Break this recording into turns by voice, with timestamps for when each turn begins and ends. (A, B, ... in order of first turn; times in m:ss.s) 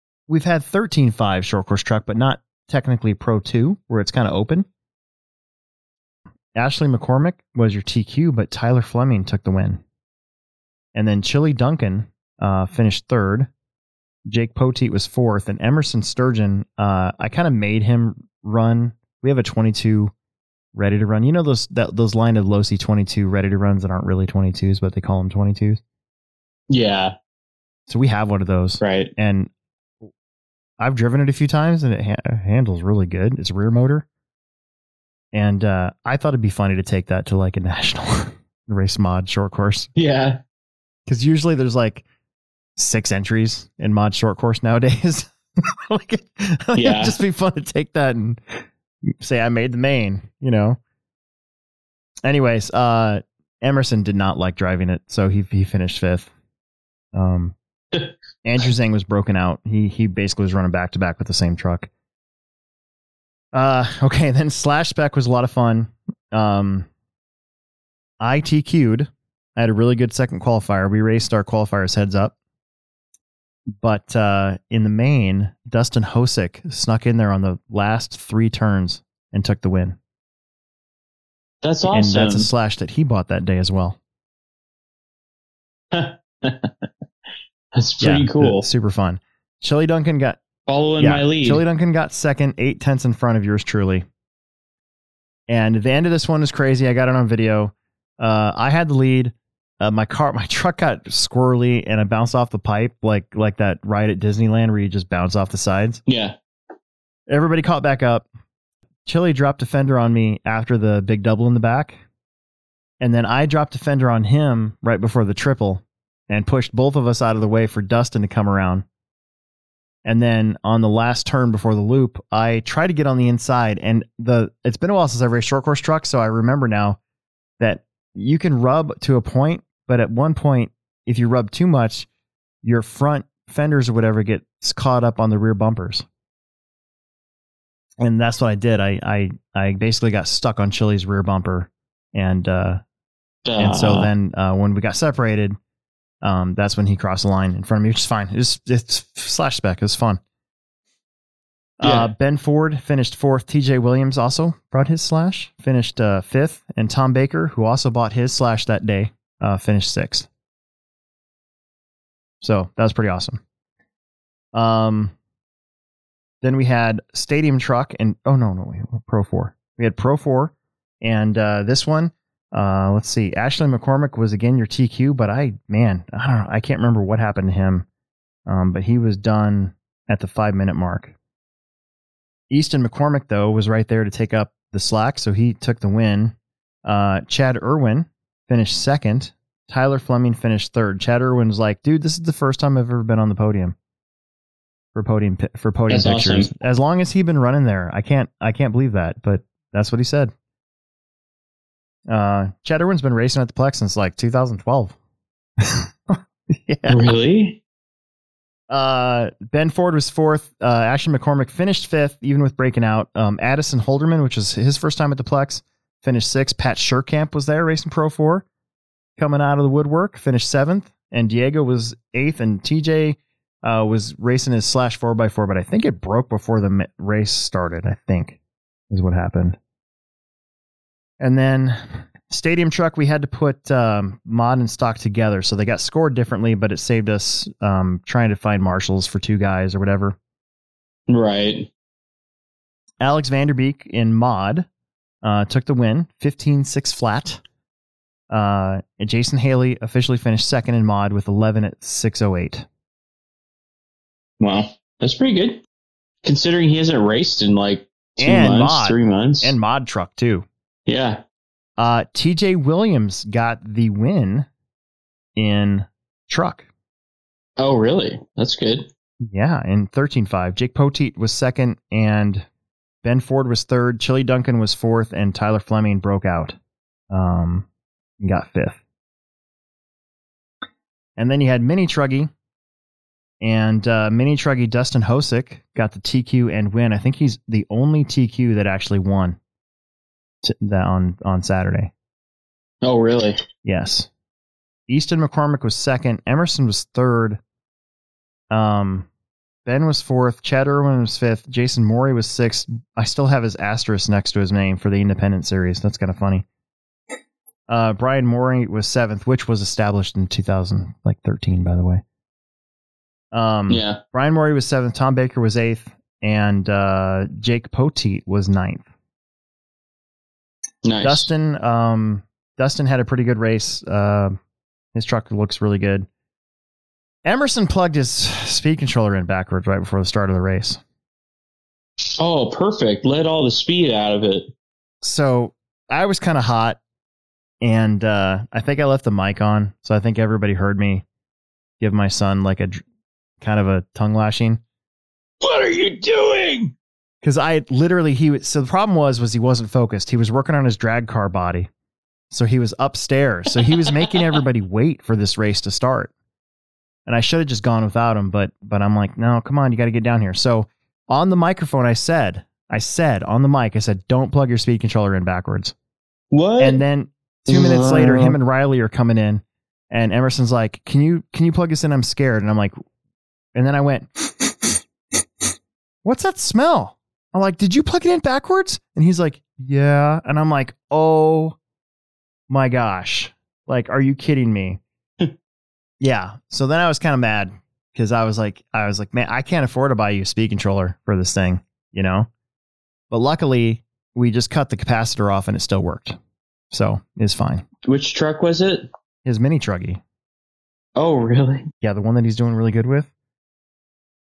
0:00.3-0:04.7 A
0:06.6-0:09.8 A
0:11.0-0:13.5 A
0:14.3-0:20.1 A
0:20.7-0:25.8 A
0:26.7-0:27.2 B
0:27.9-0:29.5 A
0:28.8-0:29.1 B
0:30.8-0:34.1 A
0:35.3-0:39.9 A
0:40.0-0:40.4 B
0:41.1-0:42.0 A
0:42.8-0:45.3 A
0:45.9-0:50.8 A
0:46.8-0:47.2 B
0:52.2-0:56.3 A
0:57.1-0:57.6 A
0:58.4-1:01.9 A
1:03.5-1:06.9 A
1:08.2-1:12.3 A
1:13.8-1:20.0 A
1:21.6-1:22.5 B
1:21.9-1:24.0 A
1:25.9-1:26.7 B
1:27.7-1:28.6 B
1:28.0-1:30.4 A
1:30.7-1:31.6 B
1:31.0-1:34.0 A
1:35.5-1:46.0 A
1:46.1-1:46.4 B
1:47.3-1:48.3 A
1:49.1-1:52.0 A
1:53.0-1:58.8 A
2:00.0-2:07.0 A
2:07.6-2:12.1 A
2:12.6-2:16.0 A
2:18.0-2:22.8 A
2:23.4-2:24.1 B
2:23.6-2:25.6 A
2:26.2-2:30.2 A
2:31.8-2:40.3 A
2:31.8-2:32.1 B
2:42.4-2:43.4 A
2:44.5-2:45.1 A
2:46.4-2:57.9 A
2:58.5-3:01.1 A
3:02.5-3:13.8 A
3:15.0-3:20.3 A
3:15.9-3:16.5 B
3:22.1-3:25.0 A
3:25.6-3:27.0 A
3:26.9-3:27.6 B
3:28.7-3:38.4 A
3:39.2-3:48.4 A
3:48.9-3:49.6 A
3:51.2-4:00.2 A
4:01.1-4:01.7 B
4:03.0-4:04.7 A
4:05.2-4:07.4 A
4:08.3-4:12.7 A
4:14.4-4:15.6 B
4:16.2-4:19.6 B
4:18.2-4:20.4 A
4:20.9-4:21.2 B
4:21.8-4:24.5 A
4:25.4-4:26.6 A
4:27.6-4:28.9 B
4:29.2-4:32.5 A
4:33.0-4:36.6 A
4:37.1-4:37.6 A
4:38.2-4:38.8 A
4:41.2-4:42.3 A
4:43.4-4:49.4 A
4:50.4-4:51.9 A
4:52.8-4:53.4 B
4:53.6-4:54.1 A
4:54.9-4:57.4 A
4:58.5-4:59.1 A
4:59.7-5:06.4 A
5:07.7-5:12.0 A
5:13.3-5:18.8 A
5:13.7-5:14.0 B
5:20.8-5:21.3 B
5:21.0-5:24.4 A
5:25.0-5:26.1 A
5:27.2-5:30.8 A
5:32.2-5:34.5 B
5:35.0-5:36.8 A
5:37.6-5:41.0 A
5:41.8-5:42.8 A
5:43.4-5:44.6 A
5:45.4-5:46.7 B
5:47.2-5:51.7 A
5:52.3-5:56.1 A
5:53.6-5:54.2 B
5:57.1-6:05.7 A
6:06.3-6:06.8 B
6:06.6-6:12.8 A
6:07.5-6:08.4 B
6:13.6-6:14.8 A
6:16.0-6:21.6 A
6:22.5-6:24.8 A
6:26.0-6:32.3 A
6:33.1-6:36.2 A
6:36.7-6:37.6 A
6:37.8-6:38.9 B
6:39.2-6:40.0 A
6:41.0-6:41.7 B
6:41.8-6:43.1 A